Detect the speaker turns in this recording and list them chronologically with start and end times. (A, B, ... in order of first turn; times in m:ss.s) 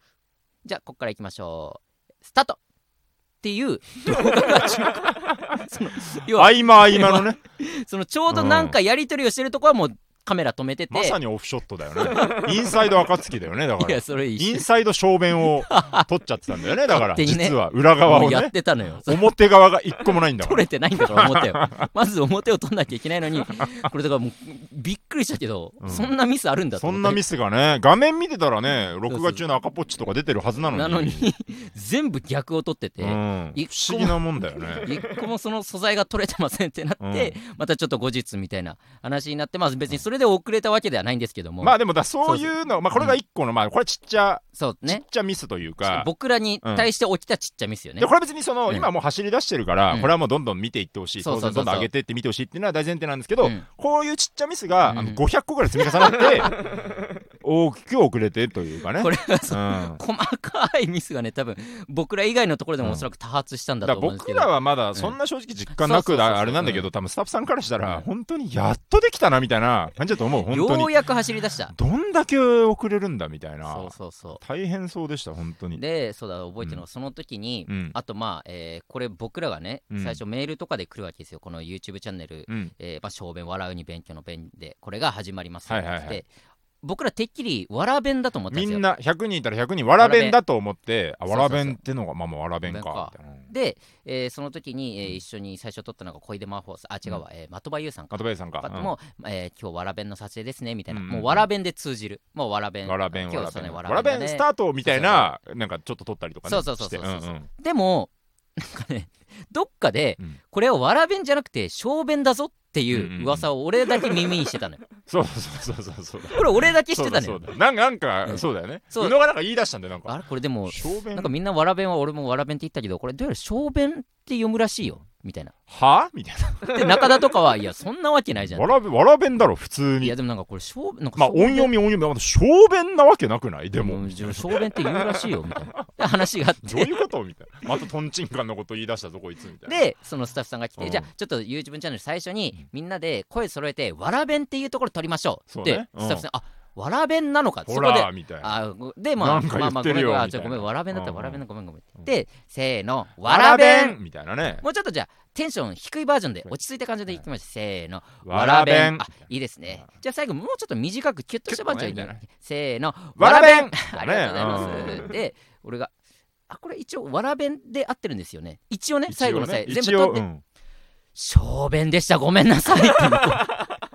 0:00.6-0:02.6 A
0:03.4-0:11.2 A
0:05.1-0:05.5 B
0:06.3-0:07.4 B
0:08.3-0:08.8 B
0:10.9-0:21.9 B
0:12.0-0:12.8 A
0:13.8-0:14.7 A
0:15.4-0:16.1 A
0:16.7-0:19.2 A
0:20.0-0:27.2 A
0:25.8-0:26.1 B
0:26.8-0:31.3 B
0:29.1-0:29.4 A
0:30.7-0:43.2 A
0:33.0-0:34.9 B
0:37.0-0:37.4 B
0:41.6-0:46.1 B
0:44.6-0:45.0 A
0:45.8-0:48.1 A
0:46.6-0:46.9 B
0:48.0-0:56.6 B
0:51.2-0:51.9 A
0:54.8-0:56.6 A
0:57.4-1:00.0 B
0:59.0-1:05.2 A
1:02.8-1:03.1 B
1:03.8-1:11.0 B
1:05.7-1:06.9 A
1:10.5-1:11.7 A
1:11.7-1:15.8 B
1:13.7-1:14.4 A
1:15.8-1:26.3 A
1:17.7-1:18.0 B
1:19.9-1:20.2 B
1:25.7-1:26.2 B
1:26.8-1:28.8 A
1:28.5-1:33.5 B
1:30.0-1:30.4 A
1:31.3-1:31.8 A
1:32.6-1:45.4 A
1:38.1-1:38.9 B
1:40.9-1:41.5 B
1:42.8-1:47.5 B
1:46.5-1:54.8 A
1:52.9-1:53.5 B
1:55.1-2:01.3 B
1:56.3-1:57.5 A
1:58.2-1:59.2 A
2:00.1-2:05.6 A
2:05.7-2:07.0 B
2:06.4-2:08.7 A
2:08.4-2:10.2 B
2:10.0-2:11.7 A
2:11.2-2:15.9 B
2:13.8-2:17.0 A
2:16.6-2:19.8 B
2:19.7-2:34.0 A
2:20.8-2:21.1 B
2:25.5-2:26.2 B
2:27.7-2:28.6 B
2:29.2-2:31.4 B
2:33.2-2:34.6 B
2:34.6-2:45.9 A
2:38.2-2:39.9 B
2:41.5-2:42.2 B
2:43.2-2:45.2 B
2:46.5-2:50.2 A
2:49.1-2:50.4 B
2:51.2-2:53.7 A